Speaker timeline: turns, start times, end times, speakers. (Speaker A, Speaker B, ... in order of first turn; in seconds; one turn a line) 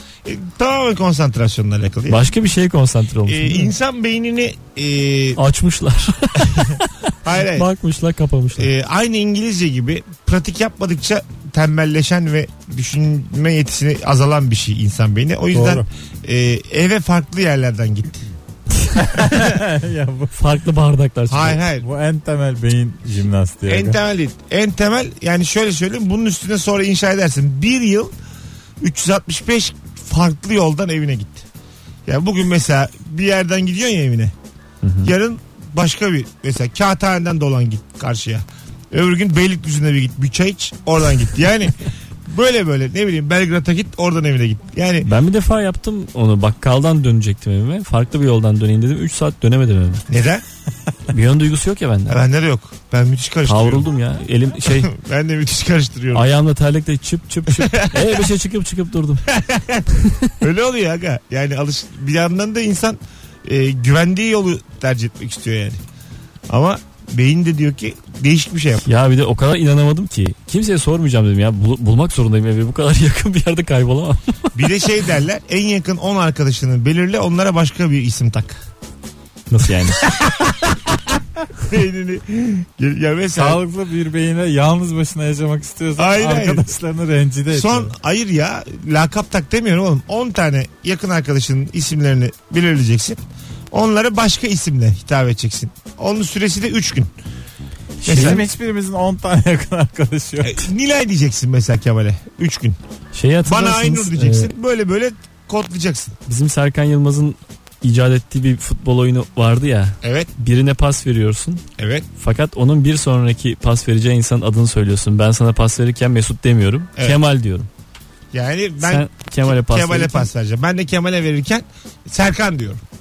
Speaker A: 0.2-2.3
Speaker B: 2.1-3.7
Speaker A: 3.2-5.4
Speaker B: 5.4-8.7
Speaker A: 7.2-7.7
Speaker A: 8.6-18.3
Speaker C: 15.5-15.8
Speaker C: 18.9-20.3
Speaker B: 20.3-21.6
Speaker A: 21.3-21.8
Speaker C: 21.8-24.0
Speaker A: 23.7-28.1
Speaker A: 28.8-31.5
Speaker A: 32.0-34.3
Speaker B: 34.8-35.1
Speaker A: 35.0-45.1
Speaker B: 45.0-50.0
Speaker A: 50.1-50.4
Speaker B: 51.1-52.2
Speaker A: 52.1-53.9
Speaker B: 53.5-54.9
Speaker A: 54.6-56.3
Speaker B: 56.1-59.2
Speaker A: 57.5-58.2
Speaker A: 59.3-59.9
Speaker B: 60.0-60.3
Speaker A: 60.4-65.8
Speaker A: 66.5-68.8
Speaker B: 68.8-74.5
Speaker A: 74.5-78.6
Speaker B: 79.5-80.0
Speaker A: 80.0-83.6
Speaker C: 83.3-87.9
Speaker A: 86.0-86.7
Speaker A: 87.5-97.1
Speaker B: 98.0-98.4
Speaker A: 98.0-98.4
Speaker C: 98.0-100.7
Speaker A: 100.4-102.8
Speaker B: 103.1-104.5
Speaker A: 103.4-106.1
Speaker B: 106.3-111.6
Speaker A: 110.0-110.3
Speaker A: 111.8-112.1
Speaker B: 112.2-117.7
Speaker A: 118.3-122.8
Speaker B: 118.8-120.3